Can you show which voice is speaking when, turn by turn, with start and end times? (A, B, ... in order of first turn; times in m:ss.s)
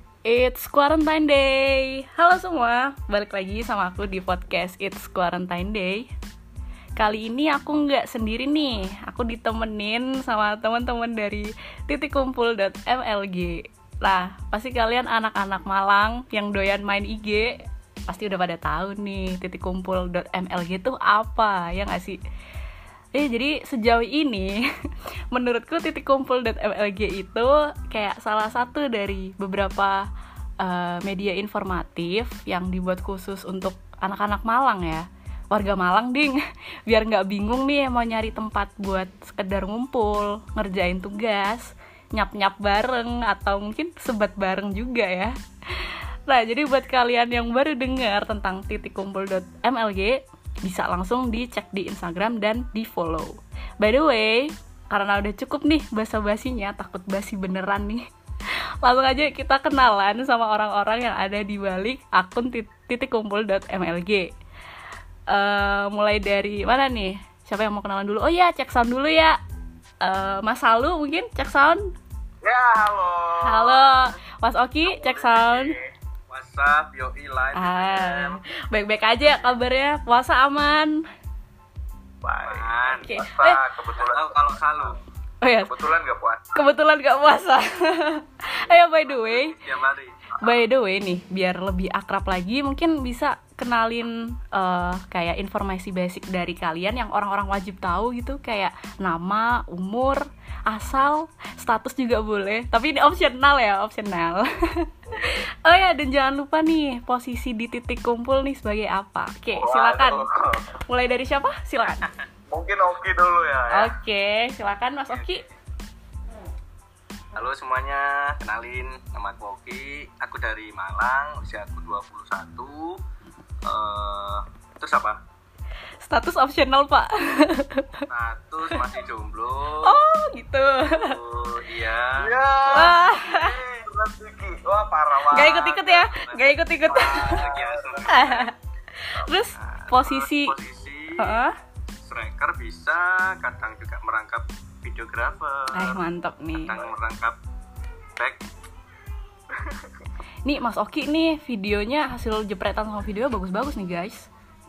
0:00.3-0:06.1 A
0:07.0-0:17.6 A
0:18.1-0:22.2 A
0:23.1-0:24.5 A
0:25.3-0:30.0 A
0:30.6-0:58.0 A
0:58.8-1:04.3 A
1:05.3-1:09.4 A
1:10.0-1:11.8 A
1:12.4-1:14.1 B
1:13.4-1:15.7 A
1:14.8-1:15.9 B
1:16.3-1:18.4 C
1:17.5-1:21.0 A
1:22.2-1:24.9 B
1:22.4-1:23.1 C
1:23.0-1:23.6 A
1:24.0-1:25.0 C
1:25.4-1:25.7 A
1:25.6-1:26.6 B
1:26.5-1:29.6 A
1:28.7-1:30.2 C
1:30.4-1:50.2 A
1:49.5-1:50.8 B
1:50.9-1:52.0 A
1:52.5-1:53.9 B
1:53.7-1:55.4 A
1:57.3-2:03.0 C
2:03.6-2:05.2 C
2:06.0-2:08.0 A
2:08.1-2:10.0 C
2:09.8-2:11.2 A
2:10.8-2:12.3 C
2:12.2-2:16.1 B
2:12.7-2:13.5 A
2:15.3-2:17.4 A
2:16.1-2:18.5 C
2:16.9-2:18.2 B
2:18.1-2:20.5 A
2:19.6-2:21.4 C
2:21.2-2:21.5 A
2:22.0-2:26.0 C
2:25.7-2:26.8 A
2:26.6-2:27.4 C
2:29.5-2:30.0 B
2:30.4-2:34.3 A